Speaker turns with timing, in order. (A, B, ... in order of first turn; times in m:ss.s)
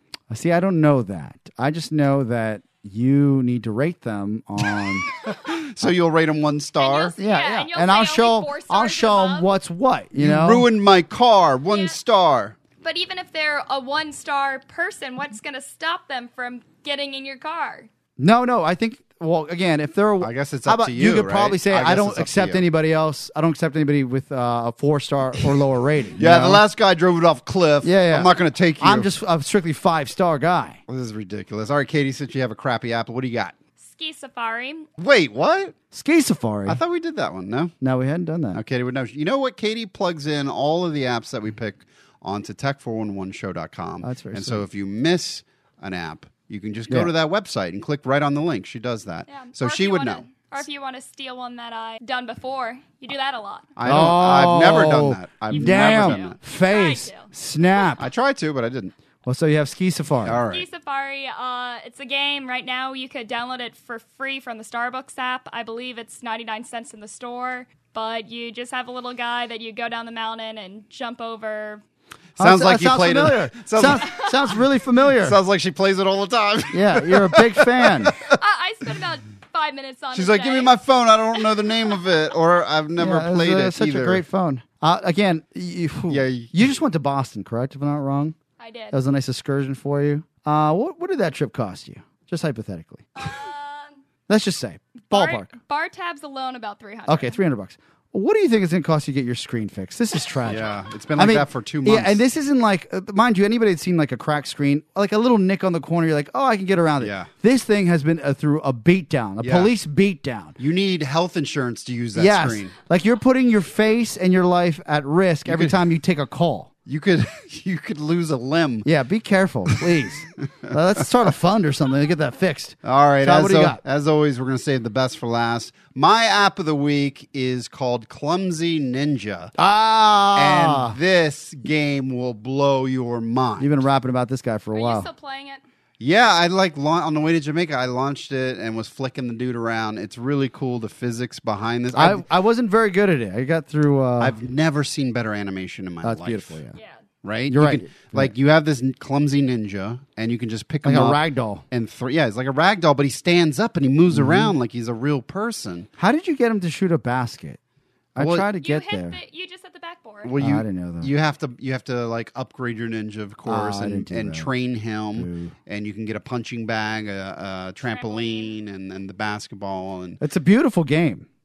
0:00.3-0:05.1 A
0:05.2-0:07.2 B
0:06.8-0:09.5 C
0:07.2-0:10.7 A
0:10.2-0:12.6 B
0:11.7-0:12.0 C
0:12.8-0:17.9 C
0:18.2-0:26.6 A
0:20.2-0:22.6 B
0:26.2-0:29.1 B
0:27.8-0:30.8 A
0:30.9-0:33.6 B
0:33.8-0:34.9 C
0:35.0-0:35.7 B
0:35.9-0:36.8 A
0:36.6-0:37.7 B
0:37.8-0:38.6 A
0:38.5-0:50.2 B
0:44.0-0:44.6 A
0:49.3-0:53.7 C
0:53.8-0:56.4 B
0:53.8-0:58.0 A
0:55.5-0:57.3 C
0:58.0-0:58.9 B
0:59.2-1:00.4 A
1:00.2-1:00.7 B
1:00.5-1:11.8 C
1:12.4-1:14.3 B
1:12.4-1:15.4 A
1:15.2-1:18.3 B
1:16.7-1:18.1 A
1:18.1-1:20.8 C
1:20.1-1:24.2 B
1:23.0-1:28.3 A
1:26.1-1:26.5 B
1:28.6-1:29.0 C
1:28.9-1:33.1 A
1:33.2-1:33.9 C
1:34.3-1:35.5 A
1:35.1-1:37.4 C
1:37.1-1:50.6 A
1:40.4-1:42.2 B
1:47.0-1:47.3 B
1:49.4-1:49.7 B
1:50.6-1:52.7 B
1:52.1-1:56.7 A
1:55.4-1:55.8 B
1:56.8-1:58.8 B
1:58.8-2:03.8 A
2:00.6-2:01.0 B
2:02.8-2:09.5 B
2:09.6-2:11.0 A
2:10.3-2:13.8 B
2:13.6-2:15.1 A
2:14.7-2:15.6 C
2:16.0-2:22.2 B
2:21.9-2:24.4 A
2:24.2-2:26.6 B
2:26.0-2:26.8 A
2:26.7-2:27.0 C
2:27.2-2:35.9 B
2:27.5-2:28.3 A
2:30.8-2:31.6 A
2:34.1-2:34.5 A
2:36.0-2:37.6 A
2:38.1-2:39.2 A
2:38.2-2:38.5 B
2:38.6-2:40.3 C
2:40.2-2:50.2 B
2:40.4-2:41.1 A
2:43.4-2:44.5 A
2:45.1-2:45.5 A
2:47.8-2:48.6 C
2:50.2-2:51.2 A